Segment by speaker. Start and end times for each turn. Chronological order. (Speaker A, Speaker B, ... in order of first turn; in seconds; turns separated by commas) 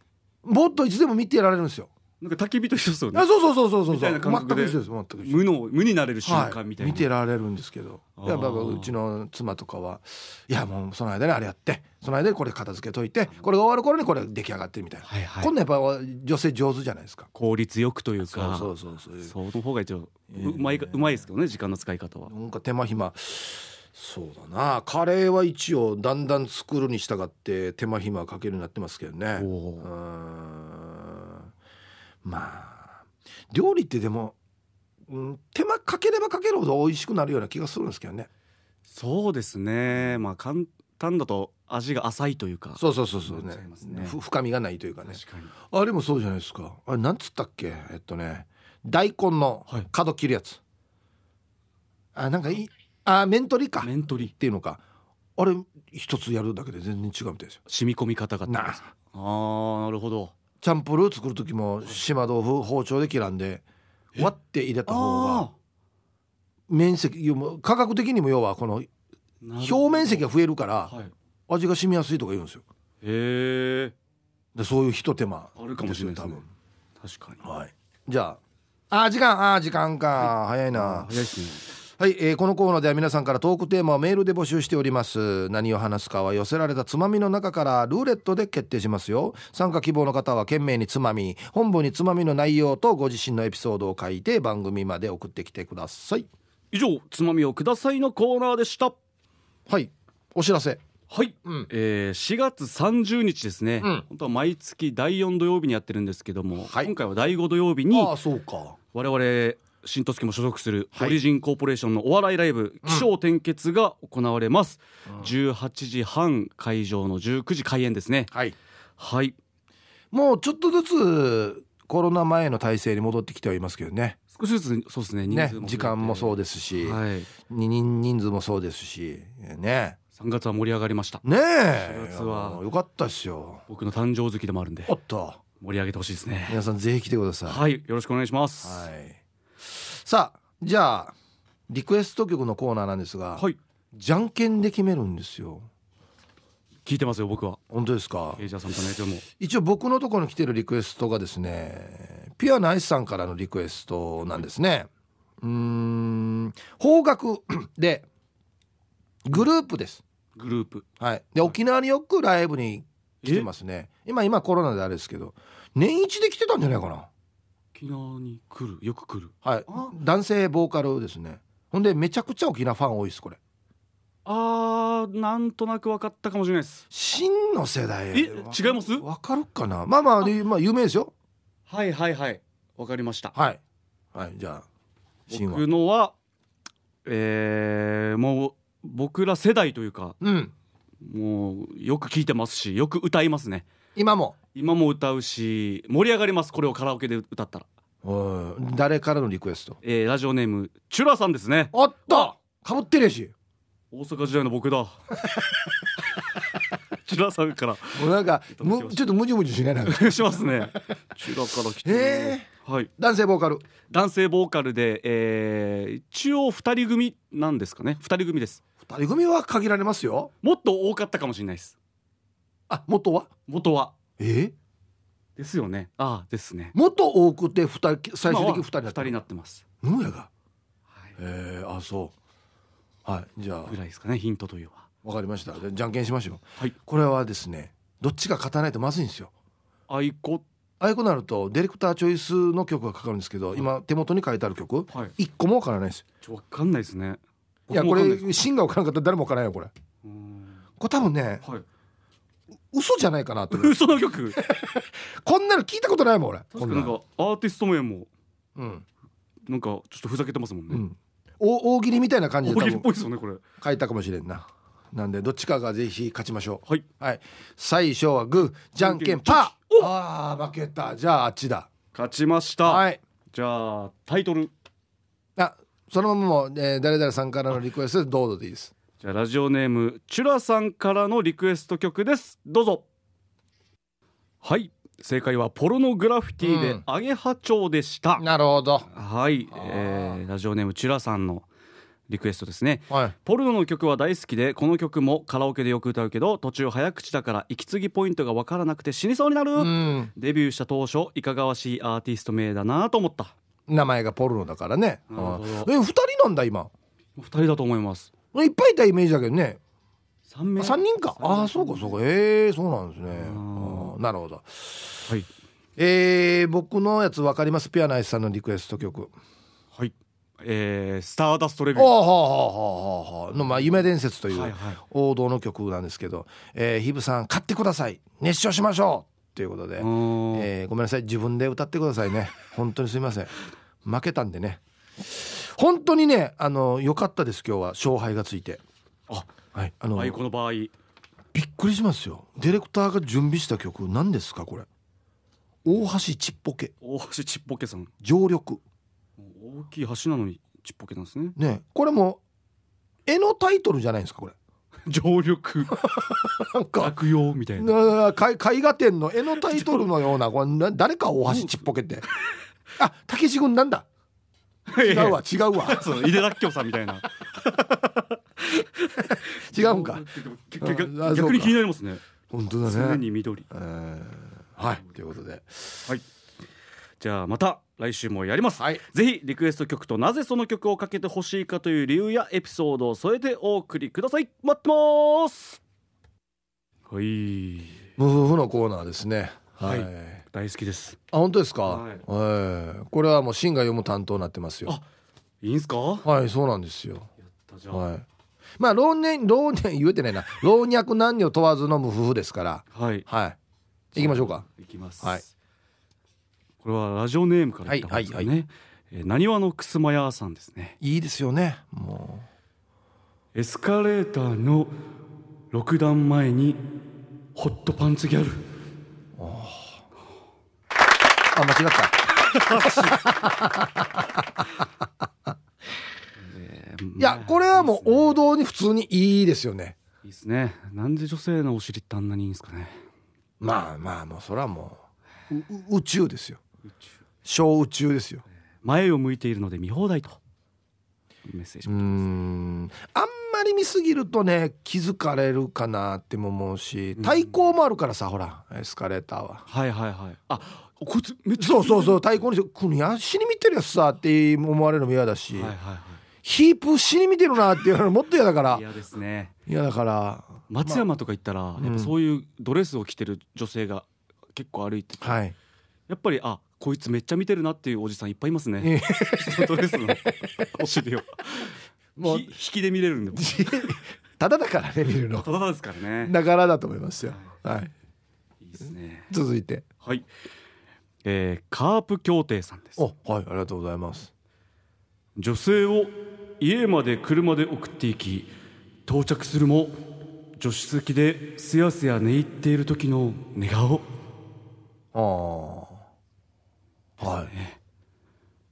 Speaker A: 0.4-1.9, Speaker B: 2.2-3.3, Speaker A: 3.1-5.4, Speaker B: 3.9-7.1, Speaker A: 6.2-17.3, Speaker B: 8.2-8.9, Speaker B: 15.1-15.5, Speaker B: 17.4-22.3, Speaker A: 18.3-19.3, Speaker A: 20.3-21.0, Speaker A: 22.3-31.5, Speaker B: 29.4-29.9, Speaker A: 32.2-34.4, Speaker A: 35.1-38.3, Speaker B: 38.9-44.2, Speaker A: 42.8-50.6, Speaker B: 45.1-45.5, Speaker A: 52.1-54.8, Speaker B: 53.8-54.3, Speaker A: 55.4-57.6, Speaker B: 57.7-60.3, Speaker A: 58.5-58.9, Speaker A: 60.6-63.6, Speaker A: 64.2-65.5, Speaker B: 64.9-65.5, Speaker A: 66.7-68.9, Speaker B: 69.4-70.3, Speaker A: 69.6-70.9, Speaker B: 70.9-71.1, Speaker A: 71.5-72.6, Speaker B: 73.0-74.0, Speaker A: 74.5-76.5, Speaker B: 75.6-76.4, Speaker B: 77.0-77.4, Speaker A: 77.4-78.4, Speaker A: 78.9-81.1, Speaker B: 80.2-81.7, Speaker A: 82.0-96.3, Speaker B: 96.7-99.0, Speaker A: 99.7-100.8, Speaker B: 101.1-108.1, Speaker A: 101.5-101.7, Speaker A: 106.6-106.9, Speaker A: 107.9-108.8, Speaker B: 108.9-118.3, Speaker B: 119.0-119.4, Speaker A: 120.1-124.2, Speaker B: 124.3-127.3, Speaker A: 125.3-130.0, Speaker B: 130.2-132.6, Speaker A: 131.2-133.6, Speaker B: 133.7-134.9, Speaker A: 134.9-135.4, Speaker B: 135.6-136.6, Speaker A: 136.5-137.6, Speaker B: 137.5-138.9, Speaker A: 138.6-141.2, Speaker A: 141.7-145.7, Speaker B: 146.9-147.6, Speaker A: 147.7-148.4, Speaker B: 148.4-149.2, Speaker A: 149.4-154.9, Speaker A: 155.4-158.1, Speaker A: 159.3-160.0, Speaker B: 160.4-160.9, Speaker A: 161.0-167.1, Speaker B: 163.2-163.5, Speaker B: 167.7-169.9, Speaker A: 169.4-173.4, Speaker B: 174.2-176.8, Speaker A: 176.9-181.1, Speaker B: 178.1-179.1, Speaker B: 181.7-183.3, Speaker A: 183.3-183.6, Speaker A: 184.1-184.7, Speaker A: 185.3-185.6, Speaker B: 185.3-186.2, Speaker B: 187.1-190.2, Speaker A: 190.2-190.5, Speaker B: 191.0-193.7, Speaker A: 193.9-194.4, Speaker B: 194.6-197.7, Speaker A: 198.0-199.8, Speaker B: 199.8-202.3, Speaker A: 201.7-203.3, Speaker B: 203.9-205.0, Speaker B: 207.1-209.1, Speaker A: 207.9-210.5, Speaker B: 209.8-212.9, Speaker A: 211.8-212.5, Speaker A: 213.0-213.7, Speaker B: 213.9-218.6, Speaker A: 218.8-220.3, Speaker B: 220.4-221.8, Speaker A: 222.7-223.3, Speaker B: 223.5-223.9, Speaker A: 224.2-224.5, Speaker B: 225.4-226.8, Speaker A: 226.7-229.2, Speaker B: 228.3-229.6, Speaker A: 229.8-230.3, Speaker A: 231.2-232.1, Speaker A: 233.1-233.8, Speaker B: 233.7-234.9, Speaker A: 235.0-239.3, Speaker B: 239.9-240.4, Speaker A: 240.8-246.0, Speaker B: 246.2-248.3, Speaker A: 247.7-249.7, Speaker B: 250.0-250.6, Speaker A: 250.8-251.4, Speaker A: 252.7-253.8, Speaker B: 253.5-254.4, Speaker A: 254.4-256.9, Speaker B: 256.5-258.1, Speaker A: 258.6-258.9, Speaker B: 259.5-260.8, Speaker A: 260.7-262.9, Speaker B: 262.4-263.4, Speaker A: 263.6-271.7, Speaker B: 268.8-269.9, Speaker B: 271.9-274.5, Speaker A: 272.7-273.0, Speaker A: 275.4-278.7, Speaker B: 279.0-282.8, Speaker B: 284.4-288.3, Speaker A: 286.4-286.8, Speaker A: 288.2-288.9, Speaker B: 288.9-291.5, Speaker A: 289.5-290.2, Speaker B: 292.1-303.4, Speaker A: 299.6-300.1, Speaker A: 303.7-306.7, Speaker B: 305.1-305.7, Speaker B: 307.2-308.1, Speaker A: 308.3-309.6, Speaker B: 310.3-312.0, Speaker A: 310.6-315.0, Speaker B: 313.1-313.9, Speaker A: 315.8-319.1, Speaker B: 319.8-321.9, Speaker A: 321.8-338.6, Speaker B: 324.3-324.8, Speaker B: 329.8-330.5, Speaker A: 339.5-340.2, Speaker B: 339.9-340.7, Speaker A: 341.3-344.7, Speaker A: 345.6-346.7, Speaker B: 346.8-347.9, Speaker A: 348.0-348.6, Speaker B: 349.2-351.4, Speaker A: 351.4-352.2, Speaker A: 353.1-354.4, Speaker B: 354.9-355.9, Speaker A: 355.8-357.0, Speaker B: 356.8-357.8, Speaker A: 357.6-362.1, Speaker B: 359.4-359.9, Speaker B: 361.3-361.5, Speaker A: 362.8-363.9, Speaker B: 364.7-372.0, Speaker A: 364.8-365.8, Speaker A: 369.1-370.1, Speaker A: 370.6-371.6, Speaker A: 372.3-375.9, Speaker B: 372.6-373.5, Speaker B: 377.0-385.6, Speaker A: 378.6-378.8, Speaker B: 386.9-387.9, Speaker A: 388.0-390.2, Speaker B: 389.6-391.0, Speaker A: 391.1-394.7, Speaker B: 391.7-392.0, Speaker B: 395.4-396.1, Speaker A: 396.0-397.1, Speaker B: 397.2-397.8, Speaker A: 397.7-398.1, Speaker A: 398.6-403.4, Speaker B: 402.7-403.1, Speaker A: 403.9-404.4, Speaker B: 403.9-405.3, Speaker B: 406.6-410.8, Speaker A: 407.7-408.3, Speaker A: 410.8-412.3, Speaker B: 413.4-414.8, Speaker B: 415.5-416.6, Speaker B: 417.4-418.5, Speaker A: 419.2-419.8, Speaker A: 421.3-424.4, Speaker B: 422.3-423.0, Speaker B: 426.2-428.2, Speaker A: 427.0-429.8, Speaker B: 430.0-432.8, Speaker A: 433.4-434.8, Speaker A: 435.3-436.4, Speaker A: 437.2-438.2, Speaker B: 438.6-440.2, Speaker B: 441.3-442.2, Speaker A: 441.7-449.4, Speaker B: 447.0-447.3, Speaker B: 449.5-452.0, Speaker A: 451.4-455.6, Speaker B: 455.3-456.0, Speaker A: 456.2-458.6, Speaker B: 458.5-459.3, Speaker A: 459.5-460.8, Speaker B: 460.5-465.2, Speaker A: 461.6-461.9, Speaker A: 465.0-465.4, Speaker B: 465.9-473.7, Speaker A: 468.6-469.8, Speaker A: 472.0-472.3, Speaker A: 473.1-475.3, Speaker B: 475.2-476.1, Speaker A: 476.0-477.7, Speaker B: 477.1-477.4, Speaker B: 478.4-479.1, Speaker A: 479.1-479.7, Speaker B: 481.1-482.8, Speaker A: 482.8-484.1, Speaker B: 485.2-488.3, Speaker B: 488.9-489.8, Speaker B: 490.4-493.9, Speaker A: 494.9-495.8, Speaker A: 497.0-497.3, Speaker B: 497.0-497.6